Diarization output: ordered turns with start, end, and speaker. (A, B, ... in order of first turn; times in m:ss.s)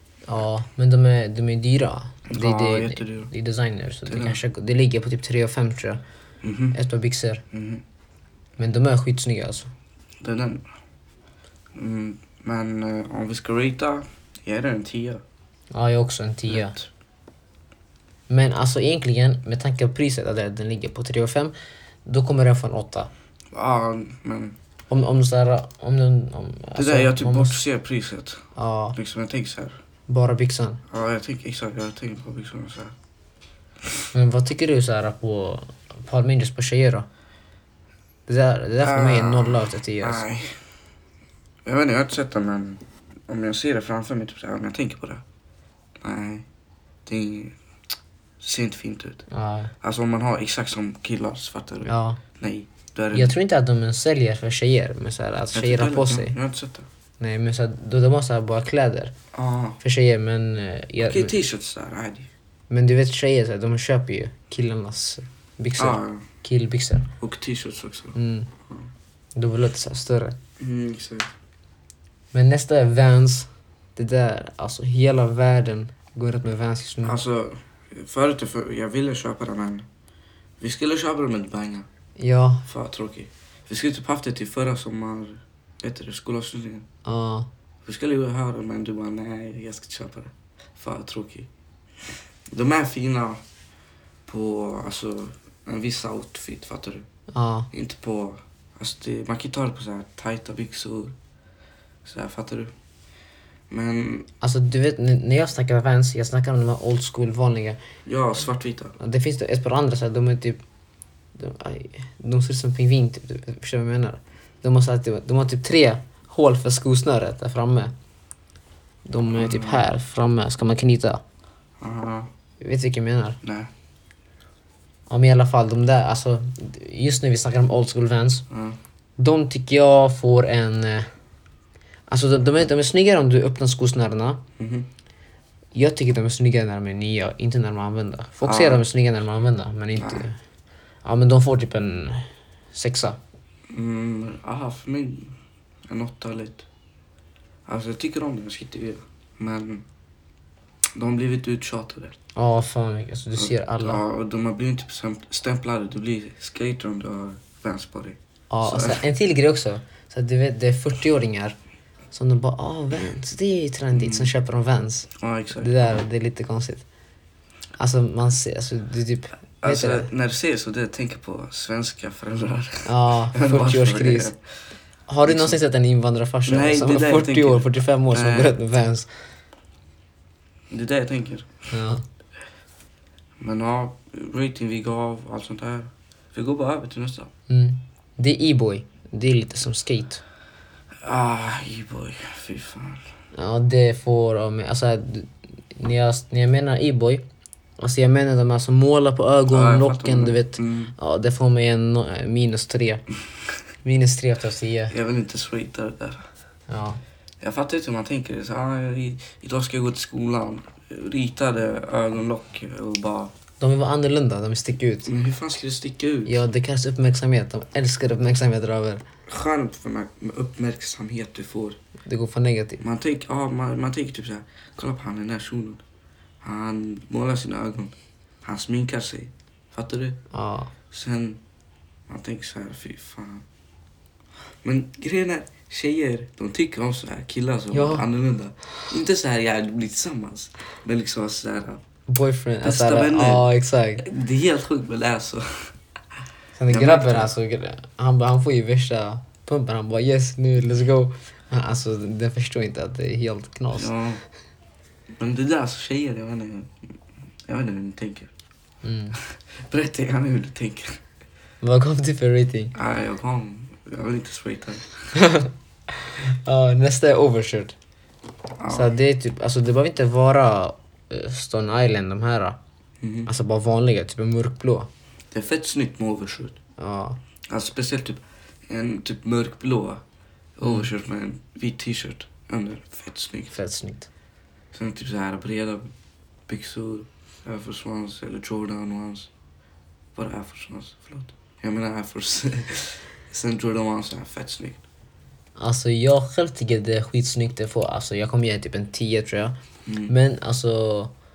0:00.3-0:06.0 A
0:02.3-0:03.3 B
0:04.1-0:04.4 B
0:06.4-0:06.8 B
0:06.7-0:07.4 A
0:07.5-0:07.8 B
0:08.6-0:09.7 A
0:10.2-0:10.7 B
0:11.7-0:15.2 B
0:15.7-0:16.8 A
0:16.5-0:16.9 B
0:18.3-0:21.5 A
0:22.1-0:23.1 A
0:23.5-0:24.6 B
0:24.9-0:27.6 A
0:26.8-0:29.8 B
0:28.6-0:29.0 A
0:30.1-0:30.8 A
0:30.9-0:33.0 B
0:34.1-0:37.1 A
0:38.3-0:40.2 A
0:38.8-0:40.6 B
0:41.6-0:45.2 B
0:46.0-0:46.5 B
0:47.1-0:47.6 B
0:48.4-0:49.3 B
0:49.3-0:49.7 A
0:49.8-0:53.4 B
0:51.8-0:52.2 A
0:53.1-0:56.4 A
0:55.5-0:56.9 B
0:57.2-0:59.1 A
0:59.3-0:59.8 B
0:59.8-1:01.3 A
1:01.0-1:02.3 B
1:02.7-1:07.1 A
1:05.8-1:06.3 B
1:07.2-1:08.9 B
1:08.2-1:08.5 A
1:09.4-1:10.4 A
1:10.6-1:11.3 B
1:12.3-1:17.2 A
1:17.0-1:19.9 B
1:20.6-1:21.9 B
1:22.2-1:22.7 A
1:22.7-1:26.9 B
1:27.0-1:27.5 A
1:27.8-1:31.5 B
1:32.5-1:33.4 B
1:34.3-1:37.1 B
1:37.3-1:37.7 A
1:37.7-1:41.1 B
1:42.0-1:42.7 B
1:43.7-1:44.3 B
1:44.4-1:47.8 A
1:48.0-1:49.0 B
1:49.0-1:50.6 A
1:51.4-1:57.9 A
1:59.0-2:01.2 A
1:59.3-1:59.9 B
2:01.8-2:02.3 B
2:02.6-2:03.4 A
2:03.4-2:03.7 B
2:05.1-2:08.5 A
2:08.5-2:08.8 B
2:09.2-2:11.1 A
2:12.1-2:14.4 A
2:14.6-2:14.9 B
2:15.8-2:20.4 A
2:18.4-2:18.8 B
2:20.0-2:20.3 B
2:21.0-2:23.2 A
2:23.7-2:25.4 B
2:25.9-2:26.7 B
2:27.7-2:29.8 B
2:31.0-2:32.2 B
2:32.4-2:34.0 A
2:33.4-2:39.0 B
2:38.5-2:41.6 A
2:42.1-2:46.8 A
2:43.9-2:44.3 B
2:45.2-2:46.0 B
2:47.8-2:50.1 A
2:49.6-2:54.4 B
2:52.8-2:54.3 A
2:55.1-2:59.1 A
2:55.2-2:55.6 B
2:56.5-2:58.6 B
3:00.7-3:01.7 B
3:01.7-3:02.0 A
3:03.4-3:07.3 B
3:07.5-3:10.2 A
3:11.0-3:13.1 B
3:13.3-3:17.2 A
3:17.8-3:23.1 A
3:19.5-3:20.9 B
3:23.8-3:25.0 A
3:24.9-3:26.3 B
3:26.7-3:27.0 A
3:27.4-3:33.3 B
3:33.6-3:35.1 A
3:35.1-3:36.4 B
3:36.3-3:39.0 A
3:39.3-3:41.8 B
3:42.1-3:42.8 A
3:42.8-3:45.8 B
3:46.4-3:50.2 B
3:50.3-3:50.7 A
3:50.9-3:51.4 B
3:52.1-3:53.4 B
3:54.6-4:01.8 B
3:57.7-3:58.1 A
4:02.1-4:04.0 A
4:02.6-4:05.8 B
4:06.6-4:14.0 A
4:06.7-4:07.3 B
4:13.7-4:14.2 B
4:15.1-4:16.9 B
4:17.5-4:18.3 B
4:18.8-4:19.2 A
4:19.2-4:21.0 B
4:21.6-4:22.8 A
4:22.7-4:25.2 B
4:25.1-4:27.8 A
4:28.6-4:28.9 B
4:28.7-4:32.6 A
4:33.0-4:33.3 B
4:33.3-4:34.9 A
4:35.3-4:36.6 B
4:36.8-4:37.2 A
4:37.5-4:40.0 B
4:40.6-4:43.6 B
4:43.5-4:44.1 A
4:44.7-4:45.9 B
4:46.5-4:49.3 B
4:50.2-4:54.8 B
4:55.6-5:01.1 A
4:59.9-5:00.1 B